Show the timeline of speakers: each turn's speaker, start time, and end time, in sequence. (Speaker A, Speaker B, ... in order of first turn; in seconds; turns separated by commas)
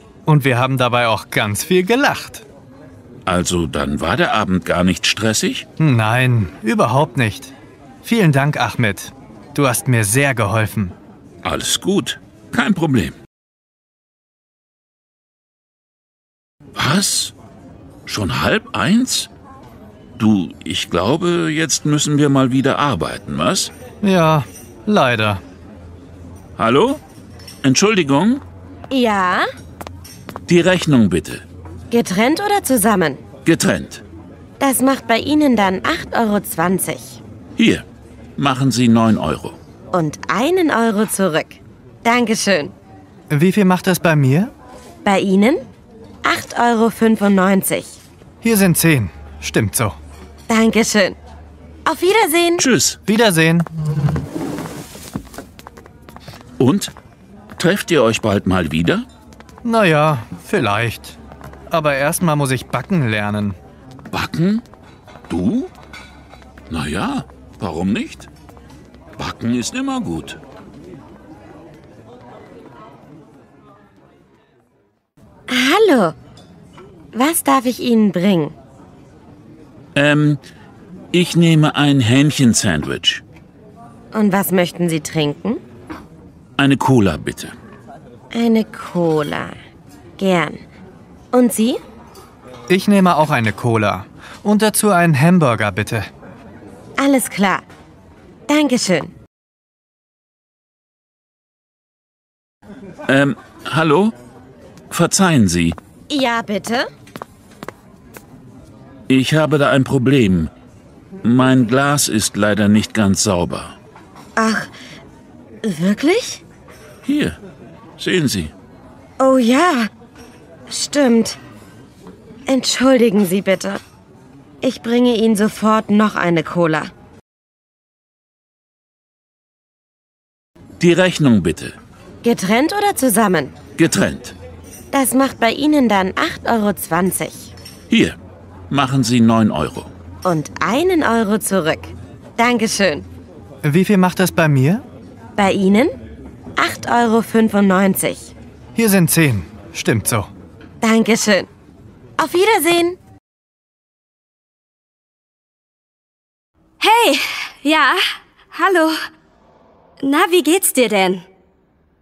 Speaker A: 0.2-2.4, Speaker B: 3.2-5.7, Speaker A: 5.8-7.5, Speaker A: 8.0-10.9, Speaker B: 11.4-13.2, Speaker B: 16.8-17.3, Speaker B: 18.1-19.3, Speaker B: 20.2-23.7, Speaker A: 24.0-25.4, Speaker B: 26.6-27.0, Speaker B: 27.6-28.4, Speaker C: 28.9-29.4, Speaker B: 30.5-31.4, Speaker C: 31.9-33.2, Speaker B: 33.4-34.0, Speaker C: 34.6-37.2, Speaker B: 37.6-37.8, Speaker B: 38.4-39.6, Speaker C: 39.9-42.7, Speaker A: 43.3-44.5, Speaker C: 45.0-45.6, Speaker C: 46.2-48.0, Speaker A: 48.4-50.0, Speaker C: 50.5-51.1, Speaker C: 51.8-52.6, Speaker B: 52.6-53.0, Speaker A: 53.0-53.6, Speaker B: 56.6-56.9, Speaker B: 57.6-59.0, Speaker A: 59.6-61.2, Speaker A: 61.7-63.6, Speaker B: 64.1-64.6, Speaker B: 65.3-65.7, Speaker B: 66.7-68.3, Speaker B: 69.2-70.4, Speaker C: 75.5-76.1, Speaker C: 77.1-78.5, Speaker B: 79.9-80.4, Speaker B: 81.1-83.2, Speaker C: 84.1-85.6, Speaker B: 86.6-87.5, Speaker C: 88.3-89.5, Speaker C: 90.2-90.6, Speaker C: 91.3-91.8, Speaker A: 92.7-96.1, Speaker C: 97.0-97.6, Speaker C: 98.5-99.1, Speaker B: 103.1-104.1, Speaker B: 104.9-105.8, Speaker C: 106.1-106.9, Speaker B: 109.1-110.5, Speaker B: 111.2-113.8, Speaker C: 114.4-114.7, Speaker C: 115.6-116.4, Speaker B: 117.0-117.4, Speaker B: 118.0-118.5, Speaker C: 119.2-119.9, Speaker C: 120.7-121.4, Speaker C: 122.5-123.8, Speaker C: 124.6-126.9, Speaker B: 130.8-131.8, Speaker C: 132.2-133.5, Speaker B: 133.8-134.3, Speaker C: 134.9-137.5, Speaker B: 137.9-138.2, Speaker B: 138.7-139.9, Speaker C: 140.2-143.1, Speaker A: 143.6-144.8, Speaker C: 145.3-146.0, Speaker C: 146.6-148.3, Speaker A: 148.8-150.3, Speaker C: 150.8-151.5, Speaker C: 152.2-153.0, Speaker D: 156.8-159.0, Speaker D: 160.0-161.2